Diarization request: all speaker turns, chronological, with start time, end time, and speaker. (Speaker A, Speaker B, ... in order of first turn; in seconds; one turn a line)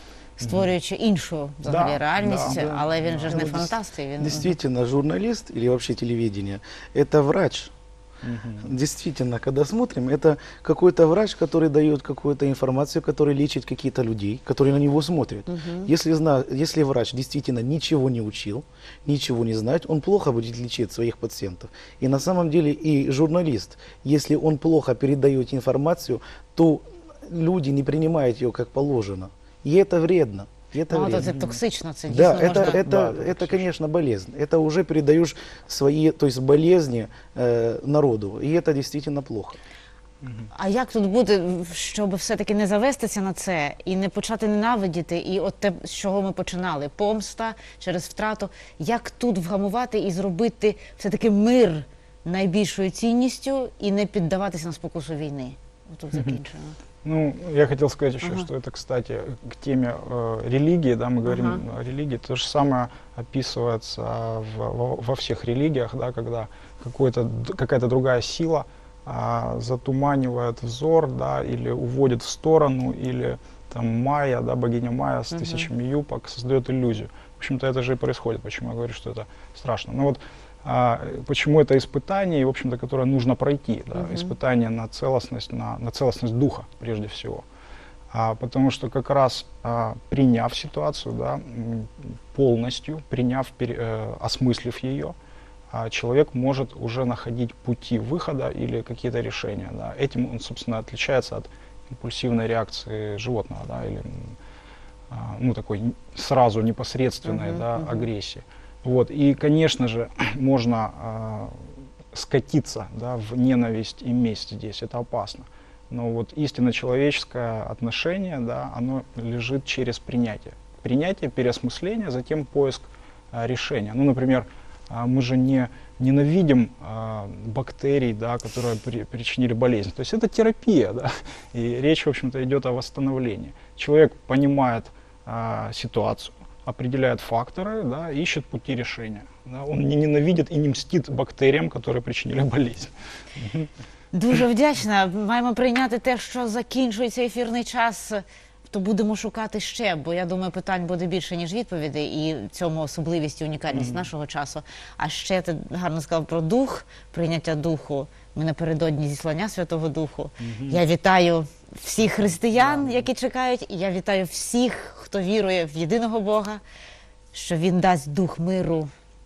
Speaker A: 0.4-4.5
Speaker B: 0.4-0.7
Speaker B: 1.6-3.7
Speaker C: 3.3-3.7
Speaker C: 4.2-7.7
Speaker B: 8.2-8.7
Speaker C: 8.6-31.3
Speaker A: 15.5-15.9
Speaker A: 30.9-33.6
Speaker B: 31.2-31.6
Speaker C: 32.1-39.6
Speaker B: 32.4-33.4
Speaker B: 40.2-40.5
Speaker A: 40.5-56.8
Speaker B: 57.0-87.5
Speaker A: 58.2-58.5
Speaker A: 61.2-61.6
Speaker A: 75.3-75.7
Speaker A: 84.0-84.3
Speaker B: 88.1-95.2
Speaker B: 95.7-104.4
Speaker B: 105.1-143.7
Speaker A: 107.2-108.1
Speaker A: 144.1-166.6
Speaker B: 153.7-154.1
Speaker B: 160.4-160.8
Speaker B: 162.6-163.0
Speaker A: 167.3-168.9